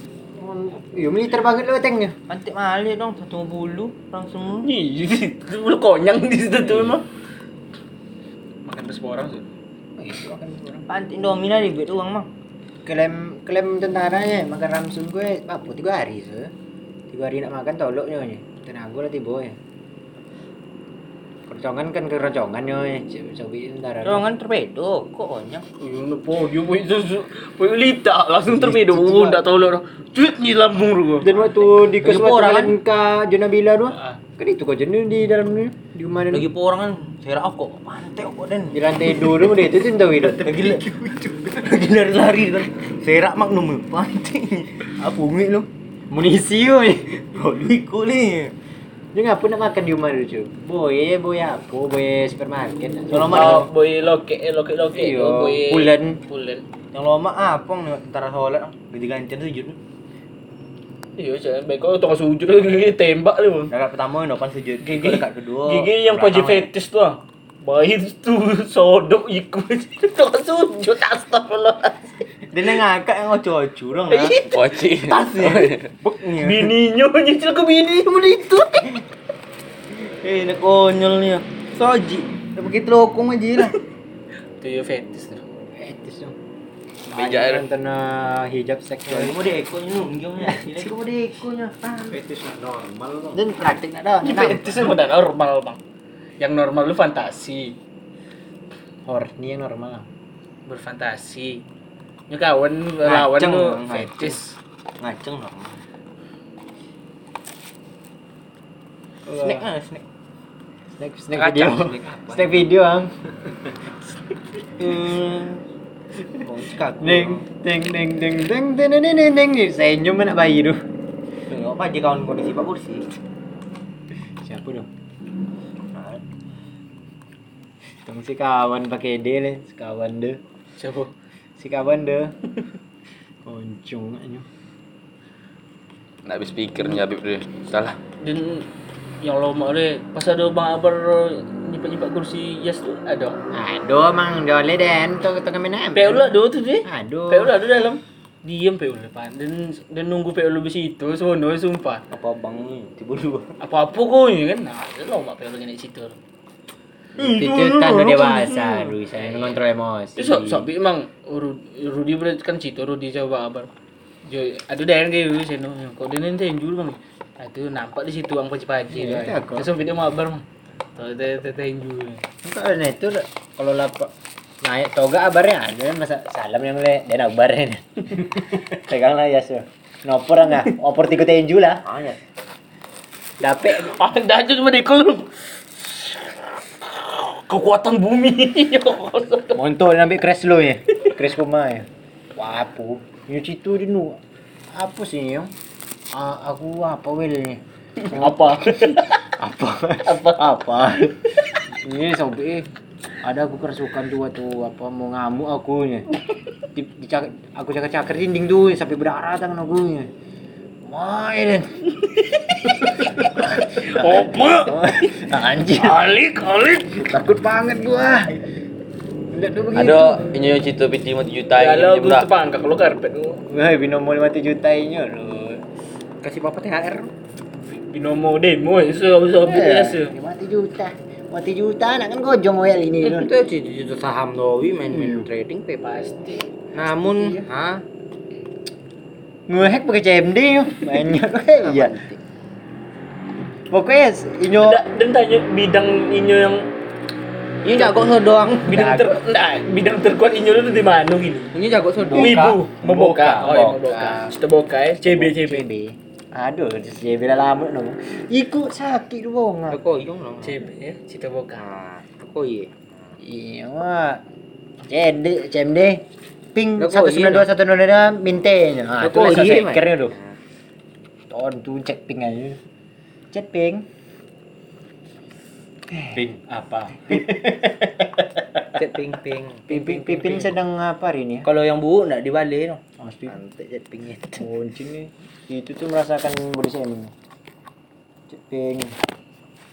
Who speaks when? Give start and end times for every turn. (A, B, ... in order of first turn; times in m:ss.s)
0:00.4-0:02.2 A
0:02.3-0:04.7 B
0:04.6-0:07.0 C
0:08.7-0:09.4 C
0:10.0-0:10.9 A
0:10.9-0:12.3 B
0:12.8-0:16.5 A
0:17.1-0:19.6 A
0:21.5-0:24.3 A
0:24.0-0:25.6 B
0:25.8-0:31.6 C
0:28.5-0:29.4 A
0:31.2-0:36.5 A
0:31.8-0:32.8 B
0:33.9-0:34.2 C
0:36.3-0:39.6 B
0:38.7-0:40.6 A
0:40.2-0:40.8 B
0:40.3-0:41.7 D
0:41.5-0:45.7 B
0:46.1-0:47.2 A
0:47.2-0:48.5 B
0:49.1-0:53.7 A
0:53.1-0:53.7 B
0:53.3-0:56.6 C
0:54.9-0:56.2 A
0:56.9-0:59.8 B
1:01.2-1:03.7 C
1:03.7-1:06.7 B
1:04.8-1:12.2 C
1:12.5-1:14.4 B
1:14.1-1:15.0 C
1:14.5-1:15.9 E
1:15.0-1:16.7 B
1:16.4-1:18.7 C
1:18.4-1:19.0 B
1:20.0-1:23.8 B
1:24.6-1:25.4 C
1:25.8-1:26.4 A
1:27.1-1:29.4 A
1:27.1-1:27.6 E
1:29.1-1:32.2 B
1:30.4-1:30.8 A
1:32.1-1:33.4 D
1:33.3-1:35.0 A
1:34.2-1:35.8 C
1:36.4-1:37.8 C
1:39.1-1:40.1 A
1:40.7-1:41.6 C
1:42.3-1:44.6 C
1:43.0-1:44.4 B
1:45.0-1:45.8 B
1:49.3-1:49.7 A
1:49.4-1:50.0 B
1:51.0-1:53.1 A
1:51.3-1:52.6 B
1:54.8-1:55.6 B
1:56.3-1:57.4 B
1:57.0-2:00.8 A
2:01.5-2:03.1 B
2:04.4-2:04.9 A
2:05.9-2:06.2 B
2:08.0-2:10.4 A
2:10.8-2:11.1 C
2:11.6-2:12.3 A
2:13.4-2:14.5 A
2:16.3-2:18.0 E
2:18.2-2:18.7 C
2:19.2-2:23.4 C
2:23.5-2:26.3 A
2:26.0-2:32.0 C
2:26.8-2:27.5 A
2:32.1-2:33.6 B
2:33.6-2:36.2 C
2:37.2-2:39.6 C
2:37.2-2:40.7 A
2:40.2-2:43.7 C
2:44.3-2:50.4 C
2:48.9-2:49.7 A
2:51.0-2:52.2 C
2:52.4-3:01.8 A
3:01.8-3:02.2 B
3:03.4-3:04.0 A
3:03.8-3:05.3 C
3:06.9-3:09.6 C
3:09.6-3:14.2 A
3:14.7-3:15.5 A
3:16.1-3:22.7 A
3:18.0-3:19.2 C
3:20.0-3:20.4 C
3:23.2-3:26.1 A
3:26.7-3:30.1 A
3:30.8-3:31.8 A
3:32.4-3:35.2 C
3:33.4-3:34.1 A
3:34.6-3:36.0 A
3:35.8-3:37.1 C
3:36.9-3:38.3 A
3:39.3-3:40.2 A
3:39.7-3:42.3 E
3:41.6-3:43.4 C
3:43.5-3:45.6 A
3:46.2-3:47.1 B
3:47.8-3:50.1 C
3:49.4-3:53.3 A
3:53.0-3:55.9 B
3:54.9-3:55.3 A
3:55.8-3:56.4 C
3:56.8-3:57.8 B
3:57.1-3:57.5 A
3:59.5-4:02.0 A
4:01.4-4:02.2 B
4:03.7-4:04.8 A
4:04.6-4:06.7 C
4:07.6-4:08.7 B
4:08.6-4:11.5 C
4:08.7-4:09.2 A
4:11.5-4:14.3 B
4:12.1-4:12.4 A
4:12.1-4:15.6 C
4:15.0-4:19.8 A
4:19.7-4:20.6 B
4:20.4-4:21.6 C
4:21.6-4:22.7 B
4:23.2-4:24.2 A
4:24.9-4:26.0 A
4:26.6-4:30.2 A
4:26.8-4:27.5 B
4:29.0-4:30.2 B
4:31.3-4:32.6 A
4:33.3-4:33.8 A
4:36.1-4:38.2 D
4:38.7-4:40.5 B
4:39.7-4:41.5 A
4:41.4-4:44.5 B
4:43.0-4:43.4 A
4:44.4-4:47.1 A
4:48.3-4:49.0 A